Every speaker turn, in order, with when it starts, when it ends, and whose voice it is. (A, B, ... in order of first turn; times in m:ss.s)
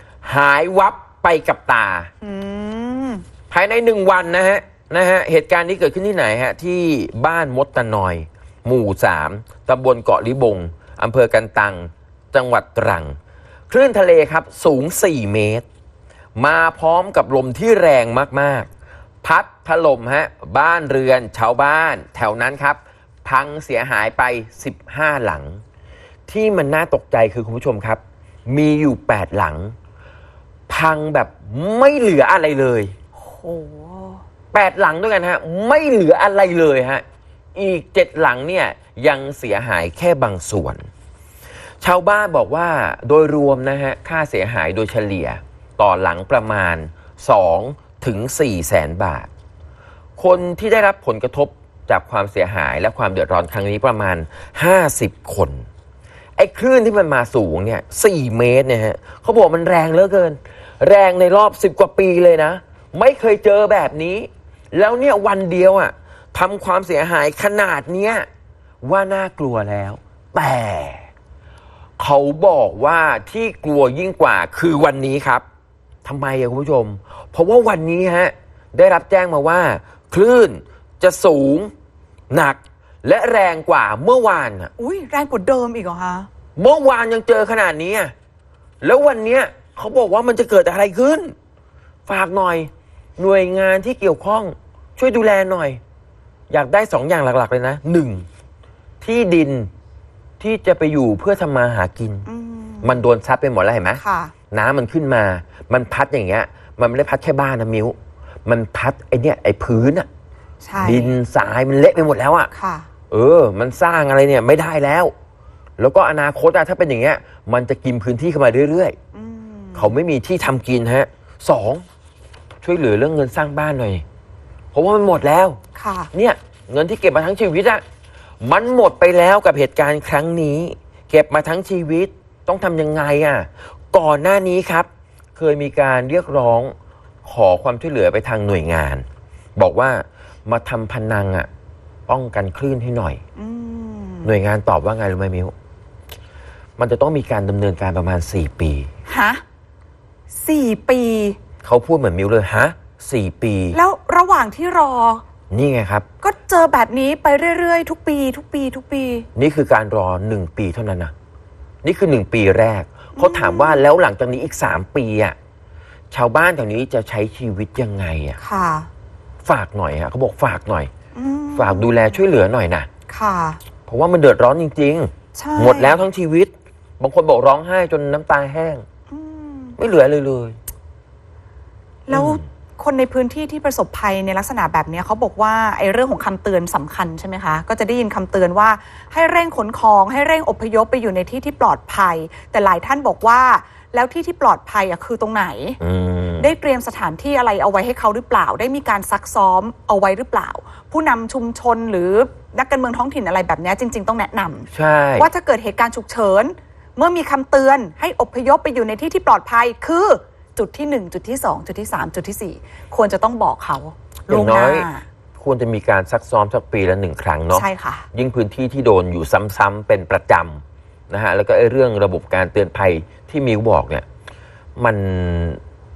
0:00.2-0:02.1 A
0:02.2-0:03.2 B
0:03.5-0:13.2 A
0:13.7-0:15.6 A
0:16.4-0:18.7 A
0:19.2-0:25.6 A
0:26.3-0:29.8 A
0:30.7-0:32.9 A
0:33.2-0:34.2 B
0:34.5-0:37.0 A
0:37.6-0:40.9 A
0:41.8-0:49.3 A
0:50.2-0:55.7 A
0:56.4-1:08.3 A
1:08.8-1:11.1 A
1:12.0-1:15.4 A
1:16.0-1:21.7 A
1:22.3-1:24.7 A
1:24.8-1:26.3 B
1:26.6-1:28.1 A
1:28.8-1:31.4 A
1:32.1-1:35.8 A
1:36.5-1:38.3 A
1:39.0-1:39.7 A
1:40.4-1:42.3 A
1:42.3-1:43.0 B
1:42.8-1:50.1 A
1:44.0-1:44.3 B
1:50.6-1:51.1 B
1:50.8-1:52.5 A
1:52.5-1:52.9 B
1:53.1-1:55.1 A
1:55.8-1:59.0 A
1:59.1-1:59.9 B
1:59.8-2:01.8 A
2:02.6-2:04.0 A
2:04.7-2:05.6 A
2:05.8-2:06.1 B
2:06.1-2:07.8 A
2:08.4-2:16.7 A
2:17.2-2:21.5 A
2:22.1-2:23.2 A
2:23.4-2:24.3 B
2:24.2-2:25.5 A
2:26.8-2:28.9 A
2:29.1-2:29.4 B
2:30.4-2:31.4 B
2:31.6-2:33.8 A
2:33.7-2:35.2 B
2:35.5-2:36.1 A
2:36.2-2:39.3 B
2:39.4-2:41.1 A
2:41.8-2:45.4 A
2:43.2-2:43.8 B
2:46.1-2:48.4 A
2:48.4-2:48.9 B
2:49.4-2:50.9 A
2:51.1-2:52.1 B
2:51.6-2:52.9 A
2:53.1-2:53.6 B
2:53.9-2:58.8 A
2:55.4-2:56.0 B
2:59.1-2:59.8 B
2:59.8-3:00.6 A
3:02.1-3:15.8 B
3:02.1-3:02.4 A
3:15.8-3:16.5 A
3:16.4-3:35.0 B
3:24.7-3:25.3 A
3:34.3-3:44.1 A
3:37.5-3:38.1 B
3:44.8-3:45.6 A